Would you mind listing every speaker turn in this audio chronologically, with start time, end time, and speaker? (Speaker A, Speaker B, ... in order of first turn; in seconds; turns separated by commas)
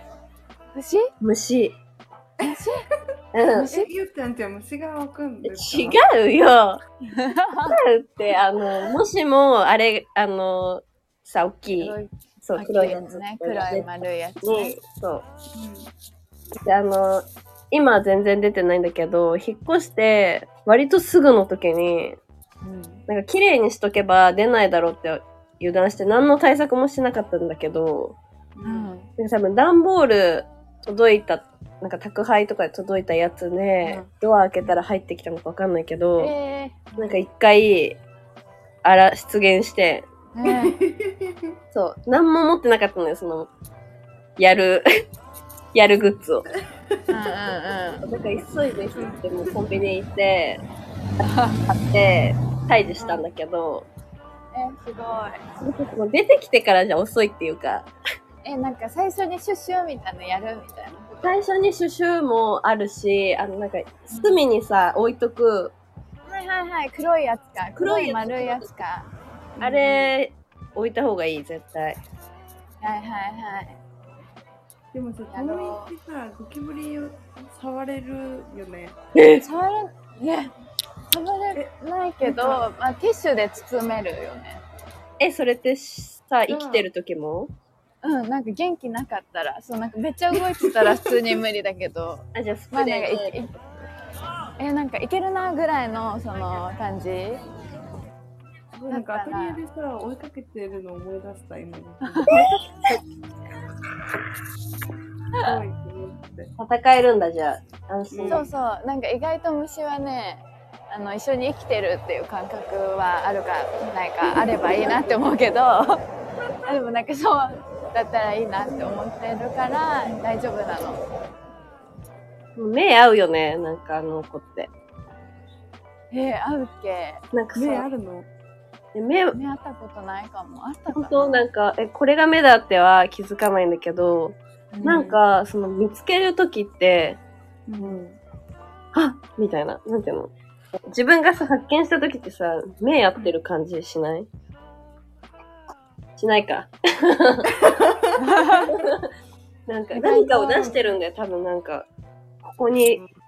Speaker A: 0.7-1.1, Speaker B: 1.2-1.8, Speaker A: 2.4-2.8, Speaker B: 3.3-3.7, Speaker A: 3.5-3.9, Speaker C: 3.6-6.0, Speaker B: 5.4-6.8, Speaker A: 7.0-7.8, Speaker B: 7.7-13.9, Speaker A: 11.8-14.8, Speaker B: 14.4-15.2, Speaker C: 15.5-15.9, Speaker B: 16.6-22.2, Speaker A: 22.6-23.0, Speaker B: 23.1-28.2, Speaker C: 28.6-28.9, Speaker A: 28.6-29.1, Speaker B: 29.2-36.3, Speaker C: 33.8-34.1, Speaker A: 36.2-37.2, Speaker B: 37.0-38.0, Speaker B: 38.8-40.1, Speaker A: 40.3-40.8, Speaker C: 40.4-41.6, Speaker B: 41.7-43.5, Speaker B: 44.4-44.9, Speaker B: 45.7-46.5, Speaker A: 47.1-48.0, Speaker B: 48.0-50.6, Speaker C: 48.9-49.5, Speaker A: 51.2-51.6, Speaker B: 51.7-53.9, Speaker A: 53.0-53.2, Speaker A: 54.5-55.4, Speaker B: 55.6-57.9, Speaker A: 58.4-61.4, Speaker B: 61.2-65.7, Speaker A: 64.1-64.4, Speaker A: 66.3-69.1, Speaker B: 67.8-68.7, Speaker C: 69.6-70.1, Speaker B: 69.6-72.0, Speaker A: 72.8-73.8, Speaker C: 74.9-79.0, Speaker A: 75.3-75.9, Speaker B: 79.1-79.4, Speaker A: 79.4-80.5, Speaker A: 81.1-84.6, Speaker C: 81.5-82.6, Speaker B: 85.2-87.5, Speaker C: 86.5-86.9, Speaker A: 88.0-93.5, Speaker B: 92.3-93.6, Speaker A: 94.6-97.4, Speaker C: 98.7-102.4, Speaker A: 98.9-99.6, Speaker A: 102.0-102.6, Speaker B: 102.3-103.0, Speaker C: 105.4-106.5, Speaker B: 106.6-108.5, Speaker C: 108.1-108.5, Speaker A: 108.3-116.0, Speaker A: 116.7-121.0, Speaker B: 122.5-124.7, Speaker A: 126.1-127.2, Speaker B: 127.3-127.8, Speaker C: 127.5-128.3, Speaker B: 128.9-129.4, Speaker A: 129.3-131.4, Speaker B: 130.9-137.2, Speaker A: 134.7-135.2, Speaker C: 137.7-138.1, Speaker B: 138.9-140.3, Speaker B: 140.8-144.3, Speaker B: 146.2-147.8, Speaker C: 147.6-148.8, Speaker A: 148.2-148.7, Speaker B: 148.7-149.1, Speaker B: 149.7-151.9, Speaker A: 149.9-150.4, Speaker C: 150.0-150.9, Speaker B: 152.4-153.0